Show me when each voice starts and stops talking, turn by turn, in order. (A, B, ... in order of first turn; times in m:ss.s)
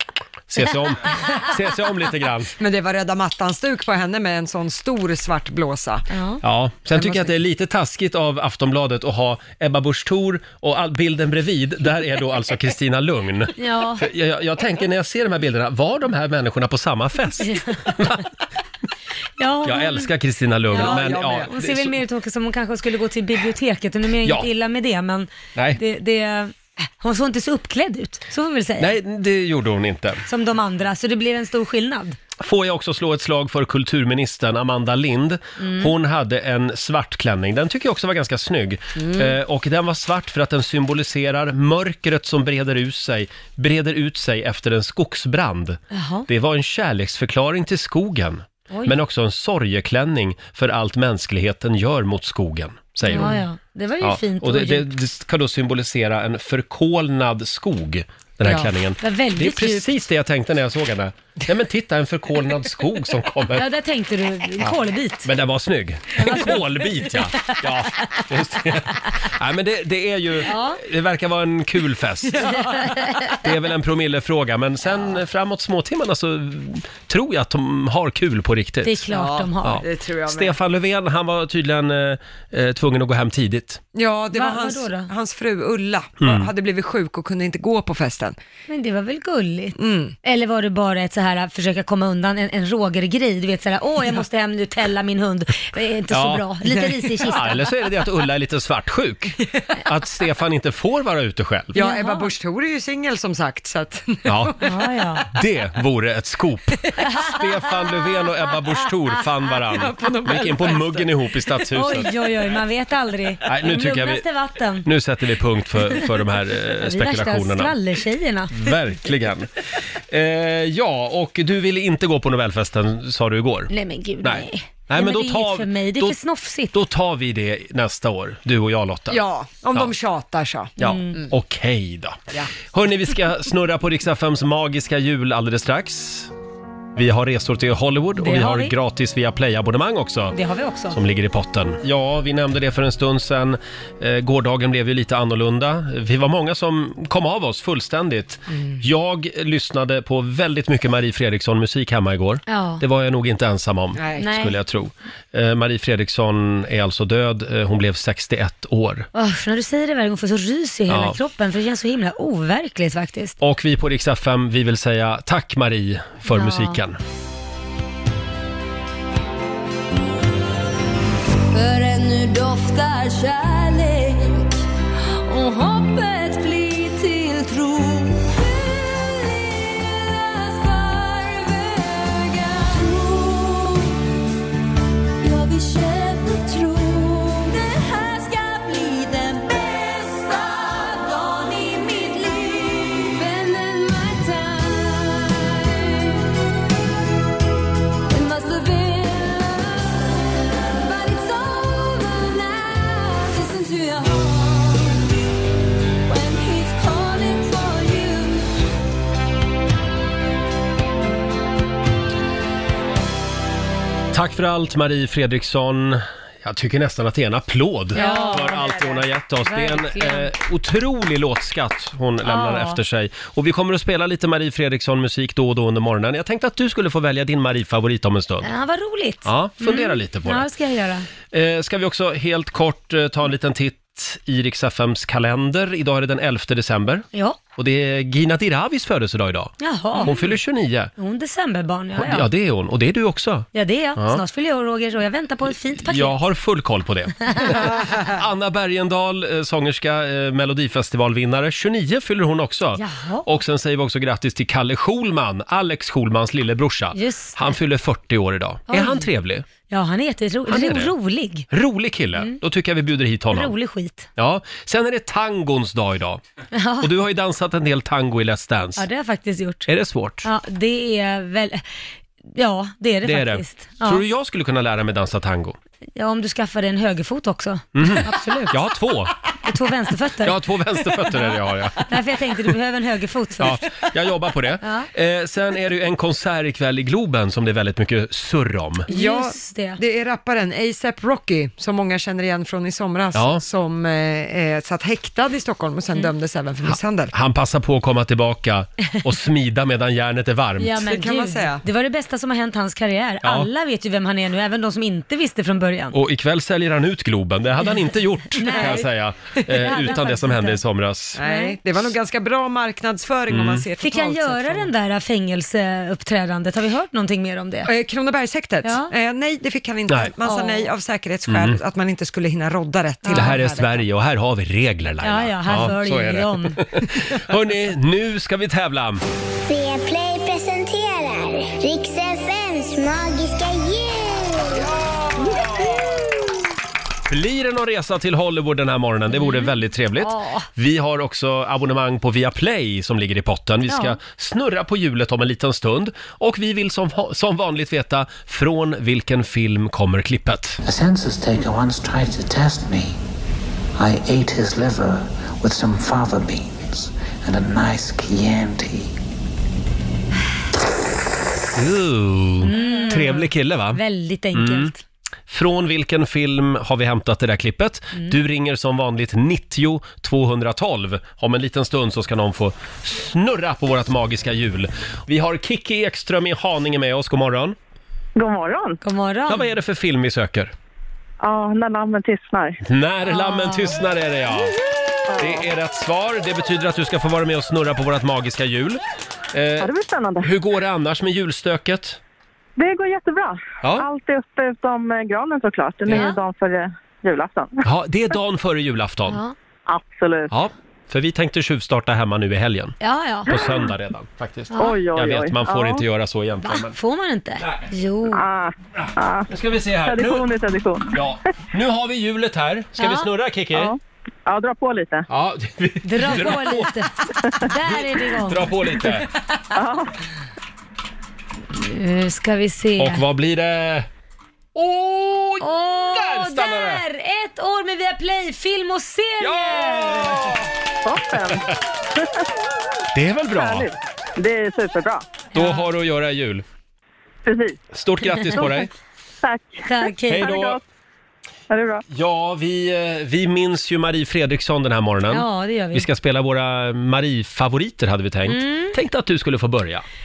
0:00.5-0:02.5 A
0:02.6-0:06.1 B
0:06.1-0:06.4 C
0:06.4-0:18.2 A
0:06.9-0:07.3 B
0:13.6-0:14.1 C
0:17.4-0:18.0 C
0:19.4-0:20.1 C
0:19.6-0:22.0 A
0:20.7-0:28.9 C
0:20.7-0:21.5 B
0:24.2-0:24.5 A
0:25.5-0:25.8 A
0:28.8-0:30.2 A
0:30.3-0:32.2 C
0:32.4-0:53.4 A
0:35.6-0:35.9 C
0:45.9-0:46.3 C
0:48.7-0:49.0 C
0:53.0-0:54.9 C
0:54.0-1:03.6 A
0:59.0-0:59.9 C
1:03.5-1:05.3 C
1:04.6-1:12.5 A
1:06.2-1:07.5 C
1:10.4-1:10.8 C
1:12.4-1:12.6 B
1:13.0-1:13.3 C
1:13.4-1:19.1 A
1:18.8-1:19.8 C
1:19.1-1:20.6 B
1:19.6-1:23.8 A
1:23.9-1:28.4 B
1:24.3-1:25.1 C
1:26.2-1:26.5 A
1:28.7-1:37.7 C
1:29.8-1:30.1 B
1:36.1-1:36.5 A
1:36.6-1:37.1 B
1:37.2-1:41.8 A
1:41.7-1:44.9 B
1:41.8-1:42.3 C
1:44.2-1:44.6 A
1:44.6-1:45.3 C
1:45.3-1:52.1 A
1:47.1-1:47.7 C
1:49.7-1:51.1 B
1:51.7-1:54.9 C
1:53.4-1:54.2 A
1:54.8-1:57.8 A
1:56.7-1:58.7 C
1:58.5-1:59.5 A
2:00.1-2:06.2 A
2:03.7-2:06.7 C
2:06.7-2:09.2 A
2:09.1-2:11.3 B
2:10.8-2:16.3 A
2:10.8-2:11.2 C
2:17.0-2:20.4 A
2:18.2-2:18.7 C
2:20.3-2:21.0 C
2:20.9-2:39.1 A
2:28.5-2:28.8 B
2:32.5-2:32.8 C
2:34.0-2:34.3 B
2:34.2-2:34.6 C
2:39.1-2:43.4 C
2:40.9-2:41.2 A
2:43.4-2:47.0 A
2:46.3-2:46.8 C
2:51.5-3:04.0 D
3:05.2-3:16.2 D
3:18.1-3:25.1 D
3:26.0-3:28.5 D
3:34.1-3:48.5 A
3:37.9-3:40.3 C
3:42.2-3:42.8 C
3:48.4-3:51.1 C
3:49.2-3:50.5 A
3:51.3-4:00.9 A
3:57.1-3:57.4 C
3:59.6-4:00.4 C
4:01.0-4:02.3 C
4:02.0-4:04.2 A
4:03.5-4:06.2 C
4:05.8-4:19.5 A
4:07.2-4:07.7 C
4:12.8-4:13.3 C
4:16.9-4:17.5 C
4:18.7-4:19.1 C
4:19.7-4:21.5 C
4:20.4-4:20.9 A
4:21.5-4:23.5 A
4:23.3-4:24.1 C
4:24.2-4:26.2 A
4:26.5-4:26.9 C
4:26.8-4:28.8 A
4:28.8-4:29.7 C
4:29.7-4:30.3 A
4:30.2-4:31.6 C
4:32.3-4:34.0 C
4:33.0-4:35.6 A
4:36.0-4:38.6 C
4:37.7-4:39.1 A
4:39.4-4:40.4 C
4:40.2-4:41.9 A
4:41.9-4:43.6 C
4:43.4-4:48.9 A
4:44.6-4:44.9 C
4:48.9-4:49.8 C
4:48.9-4:57.1 B
4:53.1-4:53.4 A
4:56.6-5:00.8 A
5:00.6-5:06.0 C
5:00.8-5:01.6 B
5:03.2-5:03.5 A
5:05.9-5:11.2 A
5:08.4-5:08.9 C
5:09.5-5:10.6 C
5:11.2-5:14.7 B
5:11.2-5:11.6 C
5:13.3-5:13.6 A
5:13.8-5:17.7 C
5:17.6-5:23.8 B
5:18.6-5:18.9 C
5:19.9-5:20.1 A
5:20.2-5:20.7 C
5:21.3-5:21.6 A
5:23.0-5:23.4 C
5:23.1-5:29.0 A
5:25.0-5:26.6 C
5:29.4-5:34.6 E
5:35.2-5:35.8 A
5:37.1-5:50.6 A
5:39.1-5:40.5 C
5:43.7-5:44.0 C
5:50.6-5:53.0 F
5:53.8-5:59.0 F
6:01.5-6:03.8 A
6:02.4-6:04.8 C
6:04.3-6:04.7 A
6:05.3-6:17.6 A
6:18.2-6:18.8 G
6:18.8-6:19.5 C
6:19.3-6:20.5 A
6:21.2-6:22.6 G
6:22.6-6:24.5 A
6:23.0-6:23.8 C
6:25.1-6:25.4 G
6:25.2-6:28.8 A
6:29.3-6:32.0 A
6:29.6-6:30.3 G
6:32.6-6:37.6 G
6:33.6-6:33.9 A
6:35.9-6:36.2 C
6:37.6-6:39.2 A
6:39.1-6:39.3 C
6:39.7-6:40.3 G
6:40.3-6:46.7 A
6:42.8-6:43.7 C
6:44.5-6:44.8 C
6:44.6-6:45.8 G
6:46.4-6:48.2 C
6:48.1-6:49.3 G
6:49.3-6:50.3 A
6:49.8-6:50.9 G
6:50.9-6:53.7 A
6:52.8-6:53.1 C
6:53.5-6:55.0 G
6:55.1-6:56.8 A
6:55.8-6:58.8 C
6:57.5-6:59.1 A
6:59.5-6:59.9 G
7:01.5-7:03.0 C
7:02.8-7:03.9 A
7:04.5-7:06.8 A
7:05.4-7:10.4 C
7:09.2-7:10.4 A
7:10.8-7:12.1 G
7:11.2-7:11.5 A
7:12.9-7:13.7 A
7:13.3-7:15.0 G
7:15.3-7:15.6 C
7:15.3-7:16.4 A
7:17.2-7:17.6 G
7:17.7-7:18.7 A
7:18.1-7:18.6 C
7:19.2-7:19.7 G
7:19.6-7:20.4 C
7:20.1-7:20.6 A
7:20.2-7:20.6 G
7:21.5-7:21.8 G
7:21.9-7:29.8 A
7:25.1-7:25.9 C
7:28.2-7:28.8 C